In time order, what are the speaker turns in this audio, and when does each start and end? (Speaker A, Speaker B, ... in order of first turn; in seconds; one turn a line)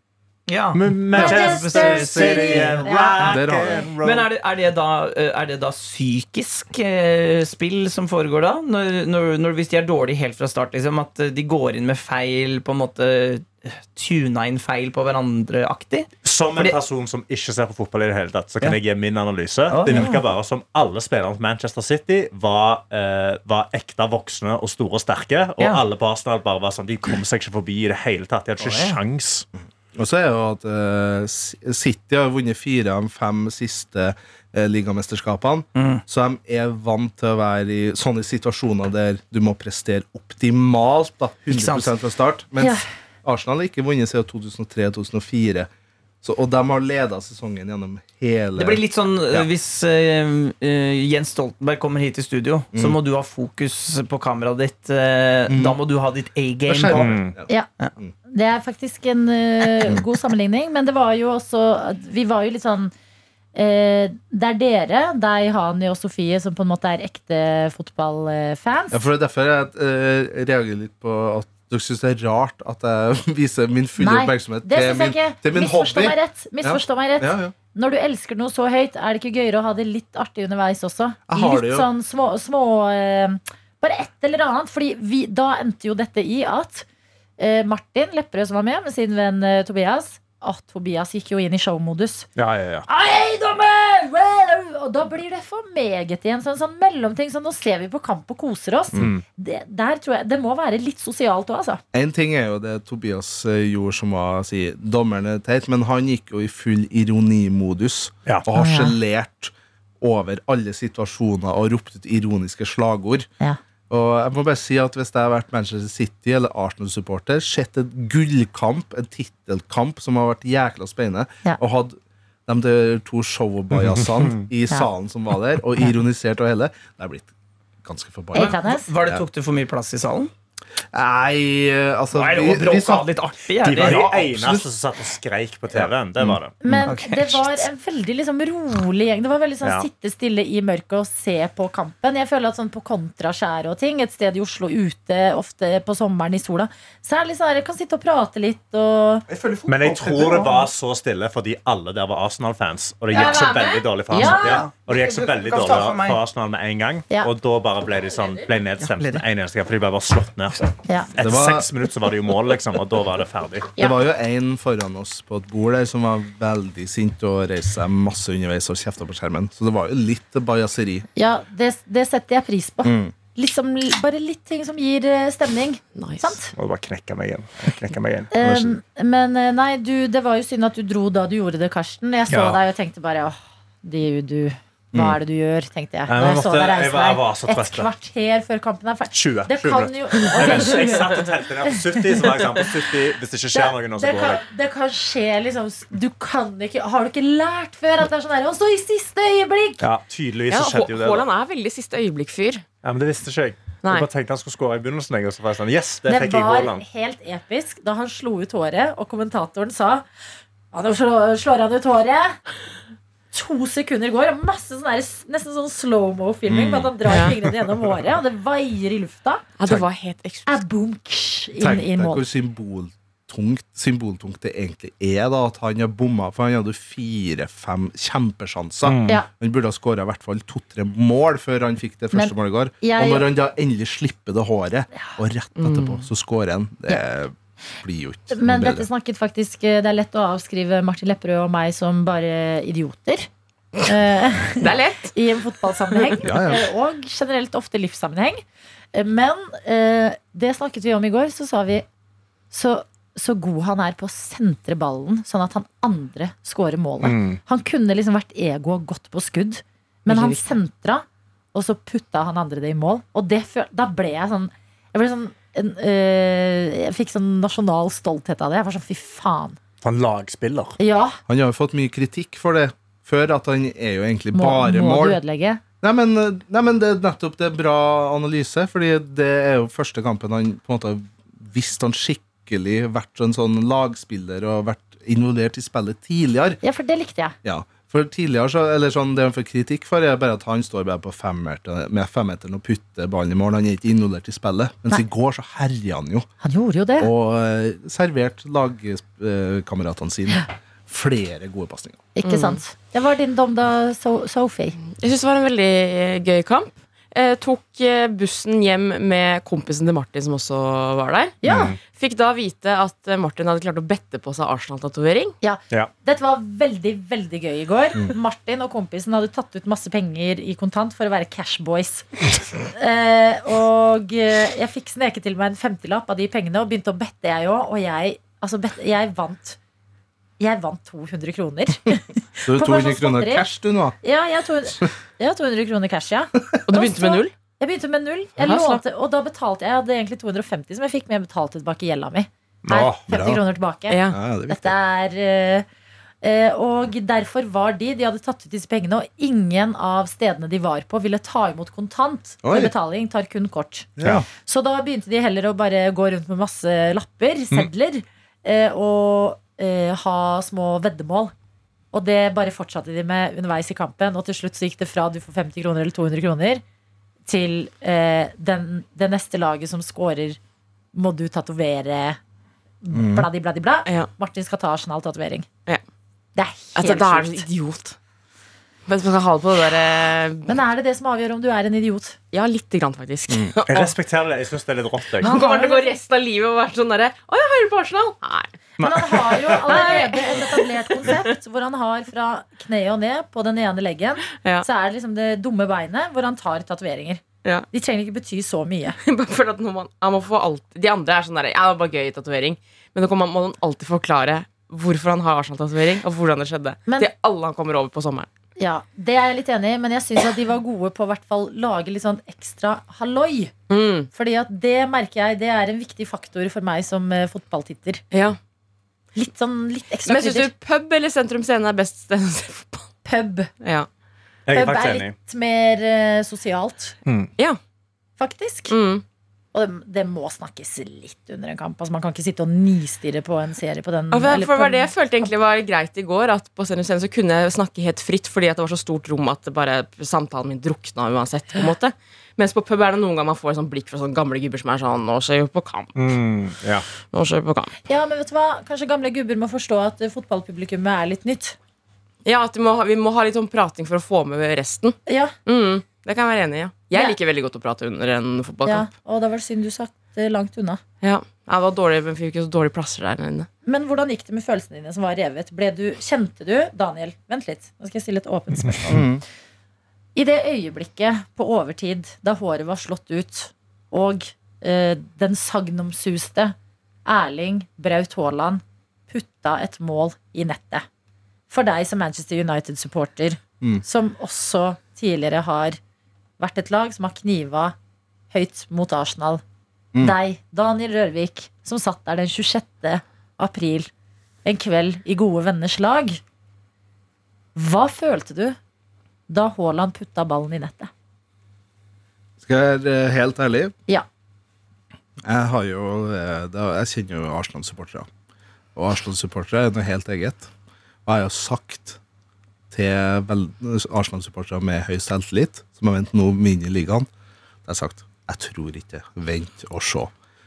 Speaker A: 0.5-3.0
Speaker B: 0.7-4.3
Speaker C: 1.1-3.7
Speaker D: 3.2-3.9
Speaker A: 4.0-16.8
Speaker B: 16.2-29.4
Speaker A: 19.7-20.2
Speaker A: 28.6-29.0
Speaker D: 29.6-45.7
Speaker A: 35.7-36.0
Speaker A: 41.5-41.9
Speaker C: 42.6-42.8
Speaker D: 46.2-49.5
Speaker A: 48.6-57.2
Speaker D: 55.5-55.8
Speaker D: 56.7-58.1
Speaker B: 56.9-57.3
Speaker C: 58.3-62.9
Speaker C: 63.5-69.0
Speaker D: 68.9-77.5
Speaker C: 74.0-86.8
Speaker D: 81.3-81.9
Speaker C: 87.4-92.3
Speaker B: 92.3-92.8
Speaker C: 92.9-101.8
Speaker B: 99.0-99.2
Speaker D: 101.9-113.3
Speaker C: 108.5-109.0
Speaker D: 113.9-127.3
Speaker B: 123.7-124.4
Speaker D: 127.8-129.2
Speaker C: 128.3-128.9
Speaker A: 128.3-130.3
Speaker D: 130.9-133.1
Speaker A: 132.1-134.2
Speaker B: 133.6-136.6
Speaker D: 133.6-134.7
Speaker D: 135.7-136.9
Speaker C: 136.6-149.2
Speaker A: 136.8-137.6
Speaker A: 149.3-150.4
Speaker B: 149.7-163.7
Speaker A: 153.1-156.2
Speaker C: 154.1-154.6
Speaker A: 158.2-159.2
Speaker C: 160.8-161.1
Speaker D: 161.2-161.7
Speaker D: 163.8-171.1
Speaker C: 171.2-176.5
Speaker D: 172.8-173.1
Speaker E: 175.9-176.4
Speaker B: 176.5-178.3
Speaker C: 178.3-191.7
Speaker D: 178.4-178.8
Speaker B: 182.3-182.6
Speaker D: 184.9-185.2
Speaker B: 186.1-187.9
Speaker B: 189.1-194.4
Speaker C: 193.5-199.8
Speaker B: 199.8-201.2
Speaker E: 200.5-202.6
Speaker B: 202.8-206.8
Speaker C: 206.1-210.0
Speaker C: 210.7-212.4
Speaker C: 213.3-219.5
Speaker D: 216.5-216.9
Speaker E: 217.1-217.3
Speaker E: 219.6-220.6
Speaker C: 220.4-222.2
Speaker D: 221.6-238.9
Speaker B: 228.8-229.2
Speaker C: 232.1-233.3
Speaker E: 235.6-236.1
Speaker C: 238.3-243.3
Speaker C: 243.8-248.4
Speaker E: 244.6-245.1
Speaker D: 246.2-246.7
Speaker C: 248.9-251.8
Speaker C: 252.5-269.6
Speaker B: 257.0-257.4
Speaker E: 260.1-260.5
Speaker B: 269.8-270.8
Speaker C: 270.8-271.2
Speaker D: 271.3-275.2
Speaker C: 274.3-275.6
Speaker D: 275.8-286.6
Speaker C: 286.6-287.4
Speaker D: 287.4-296.3
Speaker C: 296.4-297.1
Speaker D: 297.0-302.1
Speaker C: 302.1-304.8
Speaker E: 302.2-302.6
Speaker E: 304.8-311.4
Speaker C: 311.4-311.7
Speaker B: 311.5-311.8
Speaker E: 311.9-315.4
Speaker C: 315.4-322.1
Speaker C: 322.7-329.6
Speaker C: 330.4-333.5
Speaker D: 332.5-334.0
Speaker C: 334.0-345.6
Speaker E: 336.7-337.3
Speaker E: 338.4-338.8
Speaker B: 342.6-343.0
Speaker D: 343.1-343.4
Speaker E: 343.9-344.2
Speaker D: 344.1-344.7
Speaker C: 346.2-353.9
Speaker D: 352.4-352.7
Speaker D: 354.0-354.2
Speaker C: 354.4-361.3
Speaker C: 361.9-366.6
Speaker C: 367.3-370.4
Speaker C: 370.9-372.2
Speaker C: 372.8-375.5
Speaker D: 372.9-373.3
Speaker C: 376.4-377.4
Speaker E: 376.8-377.9
Speaker E: 378.9-380.5
Speaker C: 380.4-382.2
Speaker E: 382.3-383.9
Speaker D: 383.3-383.5
Speaker B: 383.7-385.3
Speaker E: 385.2-388.5
Speaker C: 385.2-386.0
Speaker B: 388.8-389.7
Speaker C: 388.8-399.0
Speaker E: 389.6-391.2
Speaker E: 394.4-394.6
Speaker E: 399.0-408.3
Speaker C: 408.6-413.5
Speaker E: 413.7-414.1
Speaker C: 414.1-418.0
Speaker E: 418.1-418.4
Speaker C: 419.1-420.5
Speaker E: 420.1-422.9
Speaker C: 423.0-423.5
Speaker E: 423.6-423.9
Speaker B: 424.5-425.1
Speaker C: 424.5-426.9
Speaker B: 427.0-427.3
Speaker C: 428.2-428.7
Speaker E: 428.7-429.0
Speaker C: 429.5-434.9
Speaker E: 434.1-446.2
Speaker B: 445.9-446.8
Speaker E: 447.1-447.7
Speaker C: 447.9-451.6
Speaker E: 452.2-458.9
Speaker C: 455.1-455.3
Speaker C: 458.6-460.8
Speaker E: 461.0-463.5
Speaker C: 463.6-469.1
Speaker D: 468.9-469.2
Speaker C: 470.1-476.5
Speaker C: 477.1-480.8
Speaker C: 481.5-485.8
Speaker C: 486.4-487.7
Speaker C: 488.3-489.4
Speaker C: 490.0-493.9
Speaker C: 494.4-496.2
Speaker C: 497.5-498.6
Speaker C: 499.3-500.9
Speaker D: 502.4-503.7
Speaker D: 505.2-508.1
Speaker D: 508.7-510.5
Speaker D: 511.1-512.0
Speaker D: 512.7-517.1
Speaker D: 517.6-520.1